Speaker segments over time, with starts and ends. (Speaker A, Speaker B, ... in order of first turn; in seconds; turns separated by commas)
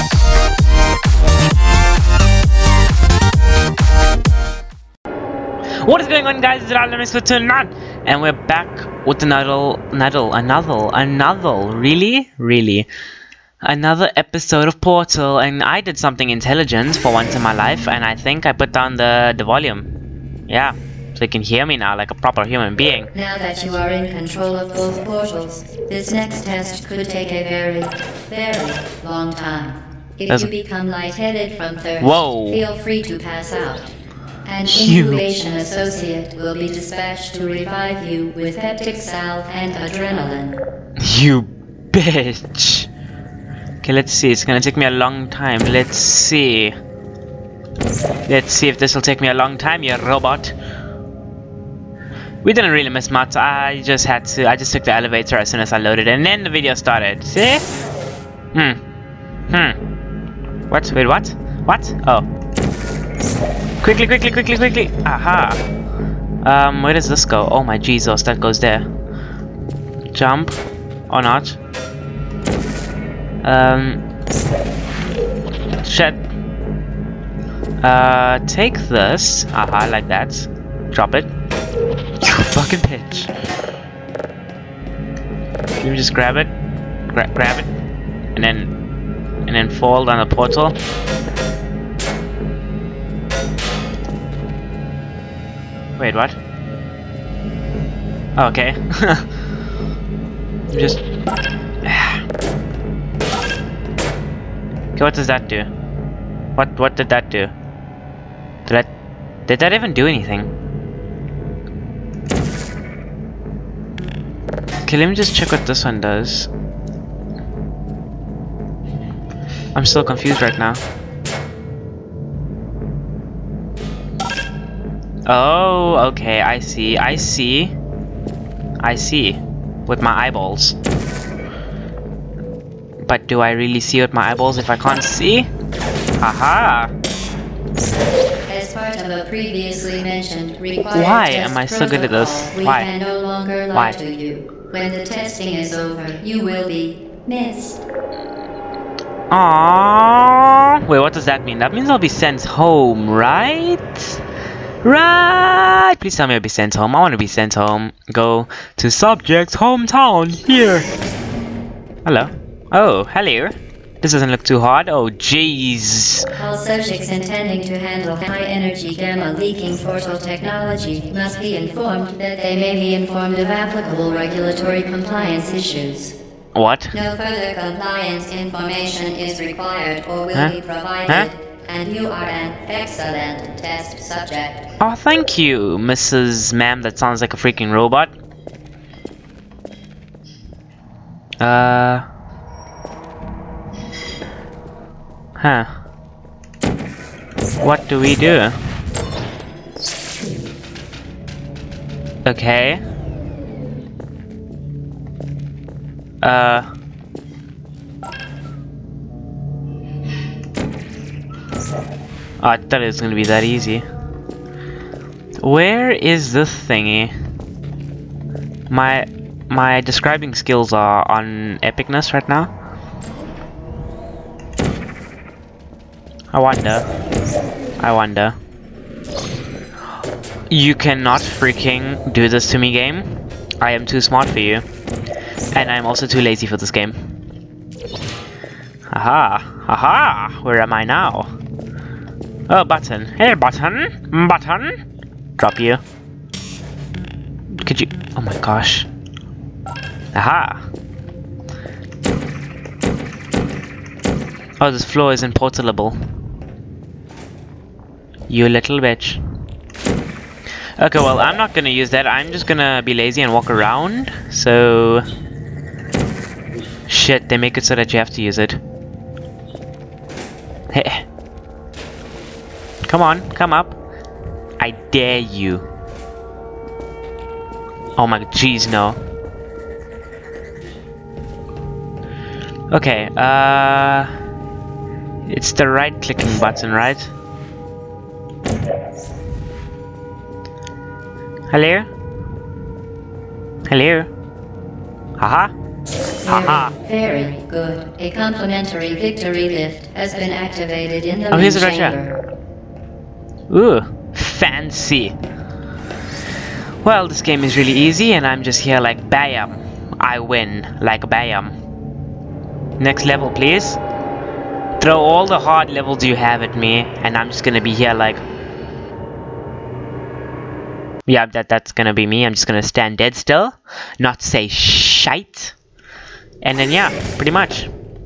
Speaker A: 5.8-12.9, Speaker A: 13.6-19.9, Speaker A: 20.5-23.1, Speaker B: 23.1-33.9, Speaker A: 32.0-32.6, Speaker B: 34.4-40.6, Speaker A: 34.6-35.2, Speaker A: 41.0-42.9, Speaker A: 43.8-46.8, Speaker A: 48.3-50.5, Speaker A: 52.4-57.6, Speaker A: 58.5-58.8, Speaker A: 59.5-59.8, Speaker A: 60.7-62.3, Speaker A: 63.8-65.6, Speaker A: 66.4-68.9, Speaker A: 70.1-70.6, Speaker A: 71.1-71.6, Speaker A: 73.4-74.0, Speaker A: 75.8-76.2, Speaker A: 77.8-81.3, Speaker A: 82.2-83.3, Speaker A: 85.8-86.5, Speaker A: 87.1-87.7, Speaker A: 88.3-88.7, Speaker A: 89.5-90.8, Speaker A: 96.0-96.4, Speaker A: 98.3-99.3, Speaker A: 100.7-101.0, Speaker A: 101.8-102.2, Speaker A: 105.0-105.7, Speaker A: 106.5-107.5, Speaker A: 109.5-110.5, Speaker A: 114.8-116.5, Speaker A: 119.7-120.8, Speaker A: 125.2-127.7, Speaker A: 128.8-130.8, Speaker A: 133.0-135.5, Speaker A: 136.2-136.9, Speaker B: 138.5-147.8, Speaker A: 140.9-142.9, Speaker A: 149.3-154.2, Speaker A: 154.8-160.9, Speaker A: 162.0-166.3, Speaker B: 166.3-176.2, Speaker A: 176.5-176.9, Speaker B: 176.9-184.6, Speaker A: 184.8-188.1, Speaker A: 191.4-192.1, Speaker A: 195.4-195.7, Speaker A: 197.6-198.5, Speaker A: 202.2-202.8, Speaker A: 206.2-206.7, Speaker A: 212.4-213.8, Speaker A: 215.4-217.1, Speaker A: 218.7-222.5, Speaker A: 226.3-226.8, Speaker A: 227.8-228.3, Speaker A: 230.5-234.6, Speaker A: 235.5-237.0, Speaker A: 238.9-241.3, Speaker A: 242.5-244.7, Speaker A: 245.4-245.8, Speaker A: 247.6-248.9, Speaker A: 250.1-250.7, Speaker A: 254.6-256.0, Speaker A: 258.3-259.2, Speaker A: 260.8-265.0, Speaker A: 266.9-268.6, Speaker A: 270.7-271.0, Speaker A: 272.9-273.8, Speaker A: 274.6-275.6, Speaker A: 278.0-279.0, Speaker A: 282.7-284.1, Speaker A: 285.2-287.1, Speaker A: 291.5-291.9, Speaker A: 293.7-294.1, Speaker A: 295.2-295.5, Speaker B: 296.2-302.2, Speaker A: 296.2-296.7, Speaker A: 301.3-302.0, Speaker A: 303.5-305.1, Speaker A: 306.8-311.5, Speaker A: 312.8-313.8, Speaker A: 314.8-318.2, Speaker A: 321.1-325.5, Speaker A: 326.4-327.7